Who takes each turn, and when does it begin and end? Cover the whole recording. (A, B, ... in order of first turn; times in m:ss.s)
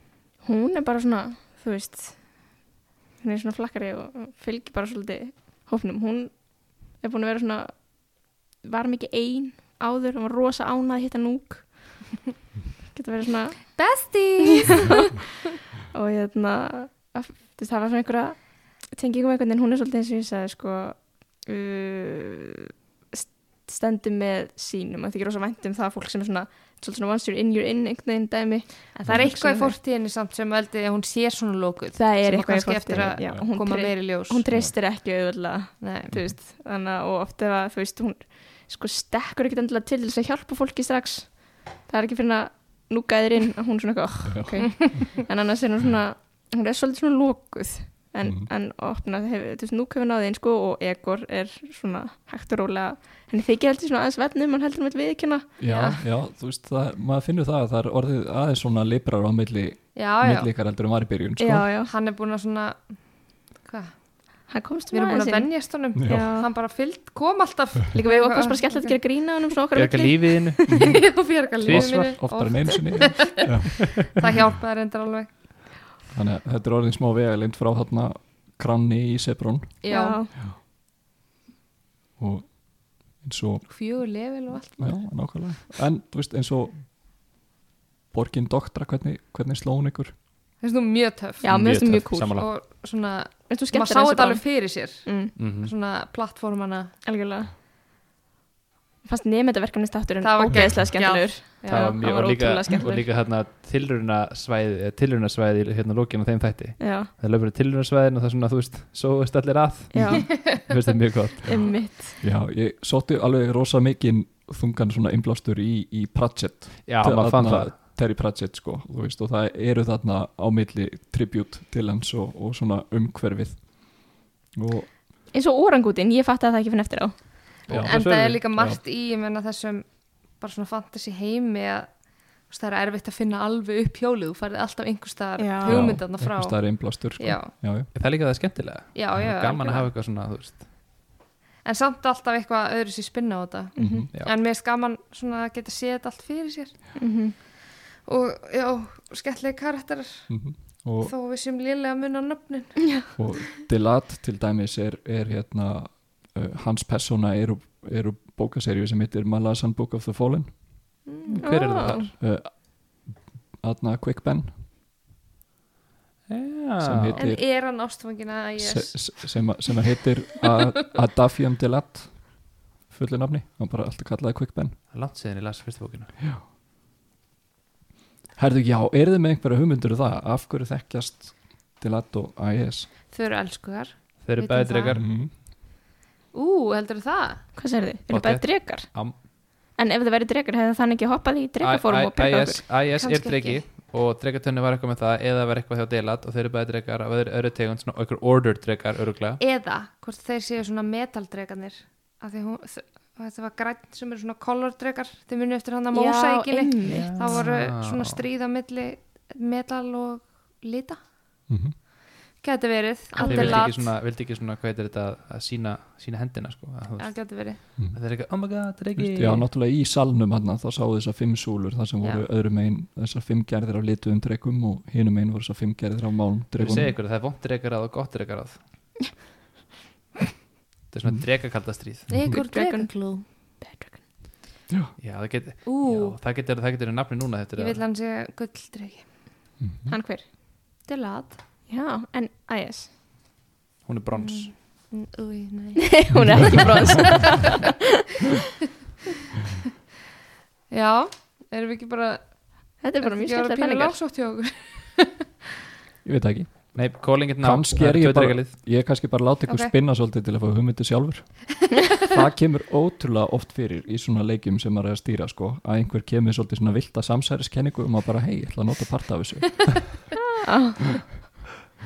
0:00.4-0:02.6 A
0:03.2-0:12.2 A
0:12.9-0:15.2 A
0:13.8-0:14.9 B
0:15.9-0:29.8 A
0:28.9-0:34.4 B
0:31.9-0:55.5 A
0:33.0-0:33.5 C
0:34.5-0:34.7 C
0:35.8-0:36.2 B
0:44.2-0:44.7 C
0:48.2-0:48.5 C
0:55.6-1:01.7 C
0:55.6-0:56.0 B
0:59.9-1:00.5 B
1:01.4-1:01.9 A
1:01.8-1:02.9 B
1:03.6-1:09.0 B
1:04.5-1:06.5 A
1:06.0-1:06.3 C
1:07.9-1:11.0 A
1:09.7-1:10.6 D
1:10.7-1:11.1 C
1:10.8-1:15.3 B
1:11.6-1:12.2 D
1:11.6-1:14.2 C
1:16.1-1:19.8 C
1:19.8-1:20.2 B
1:19.9-1:20.3 A
1:22.2-1:23.7 C
1:23.7-1:25.0 B
1:24.8-1:26.8 C
1:28.1-1:30.1 C
1:30.6-1:36.9 B
1:31.4-1:32.4 A
1:31.5-1:32.5 D
1:33.5-1:35.3 A
1:35.4-1:35.7 D
1:37.0-1:37.5 A
1:39.0-1:43.1 A
1:40.2-1:42.0 B
1:41.7-1:51.6 D
1:46.8-1:47.1 A
1:49.9-1:50.4 A
1:51.4-1:52.2 A
1:52.2-2:04.9 C
1:56.8-1:57.8 D
2:05.3-2:07.2 A
2:07.7-2:08.4 D
2:07.7-2:08.8 C
2:07.8-2:17.5 B
2:15.4-2:16.0 A
2:15.6-2:17.9 C
2:17.9-2:20.7 D
2:18.9-2:19.9 B
2:21.6-2:26.8 B
2:23.8-2:24.1 A
2:23.8-2:24.1 C
2:27.0-2:27.4 A
2:28.0-2:30.3 B
2:30.3-2:31.1 C
2:31.0-2:32.8 B
2:33.2-2:40.6 C
2:41.1-2:41.4 B
2:41.3-2:42.1 D
2:41.4-2:42.1 A
2:42.2-2:44.5 C
2:46.3-2:47.2 D
2:46.8-2:47.5 C
2:47.2-2:49.2 B
2:48.6-2:54.8 C
2:54.9-2:56.1 D
2:58.4-3:02.9 C
3:03.1-3:05.0 B
3:04.2-3:05.1 D
3:04.9-3:05.3 C
3:06.3-3:07.4 B
3:07.5-3:12.6 A
3:08.1-3:09.2 D
3:11.6-3:19.4 D
3:13.0-3:13.6 B
3:19.4-3:31.0 B
3:25.9-3:27.4 A
3:26.8-3:28.2 D
3:31.5-3:31.8 C
3:32.4-3:33.9 B
3:33.1-3:33.6 A
3:33.2-3:39.5 D
3:37.0-3:37.6 B
3:39.0-3:47.0 C
3:46.6-3:48.6 D
3:50.9-3:52.1 D
3:52.1-3:52.4 C
3:52.1-3:53.2 B
3:52.3-3:54.0 A
3:54.7-3:54.9 C
3:55.0-3:57.8 D
3:55.6-3:56.2 B
3:57.6-3:59.0 B
3:59.6-3:59.9 C
3:59.9-4:00.2 A
4:00.8-4:01.4 B
4:01.7-4:02.9 A
4:03.8-4:04.5 D
4:04.1-4:06.2 B
4:05.8-4:07.7 A
4:06.1-4:07.1 C
4:07.0-4:07.4 B
4:10.7-4:15.2 B
4:12.8-4:14.0 A
4:16.0-4:21.5 C
4:16.7-4:18.5 D
4:19.5-4:19.7 B
4:22.0-4:30.0 C
4:30.4-4:31.1 A